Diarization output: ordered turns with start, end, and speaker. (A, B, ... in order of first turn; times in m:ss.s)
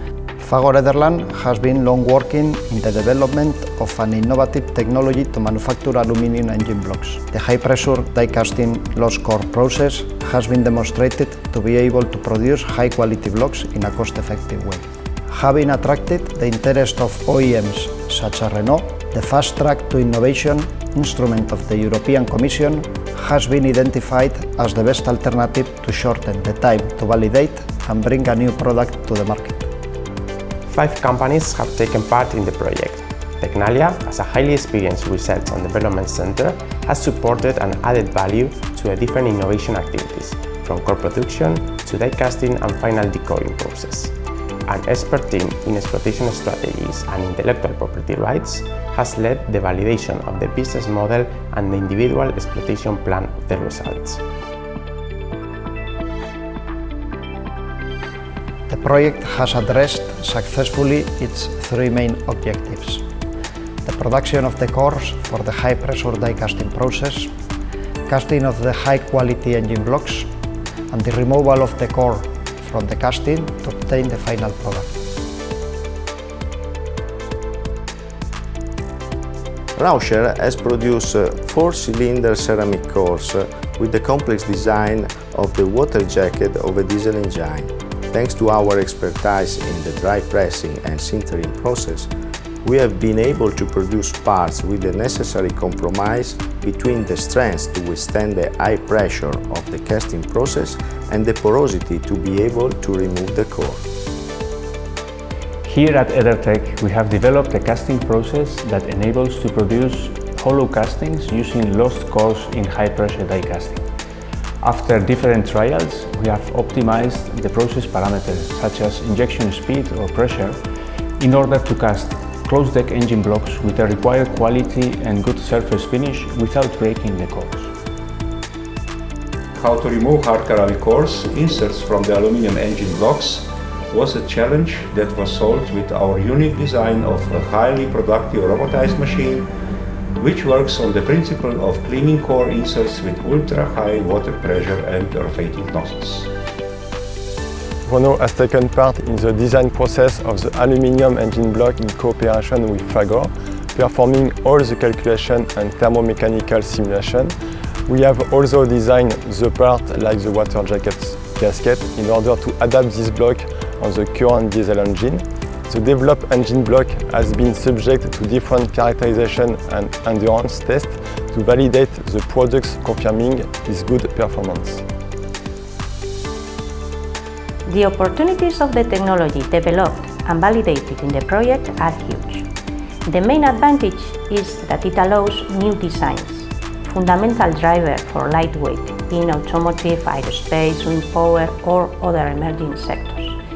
0:00.4-0:29.7 A
0:30.7-0:44.1 B
0:44.7-0:54.2 B
0:58.7-1:03.0 A
1:03.8-1:07.3 A
1:08.1-1:10.3 A
1:10.9-1:14.9 A
1:19.8-1:32.1 C
1:32.6-1:43.8 C
1:45.6-1:53.8 D
1:54.6-2:00.6 D
2:01.2-2:07.7 D
2:09.6-2:19.5 E
2:20.2-2:26.3 E
2:27.9-2:37.3 F
2:37.9-2:54.8 F
2:57.7-3:02.5 G
3:03.1-3:13.4 G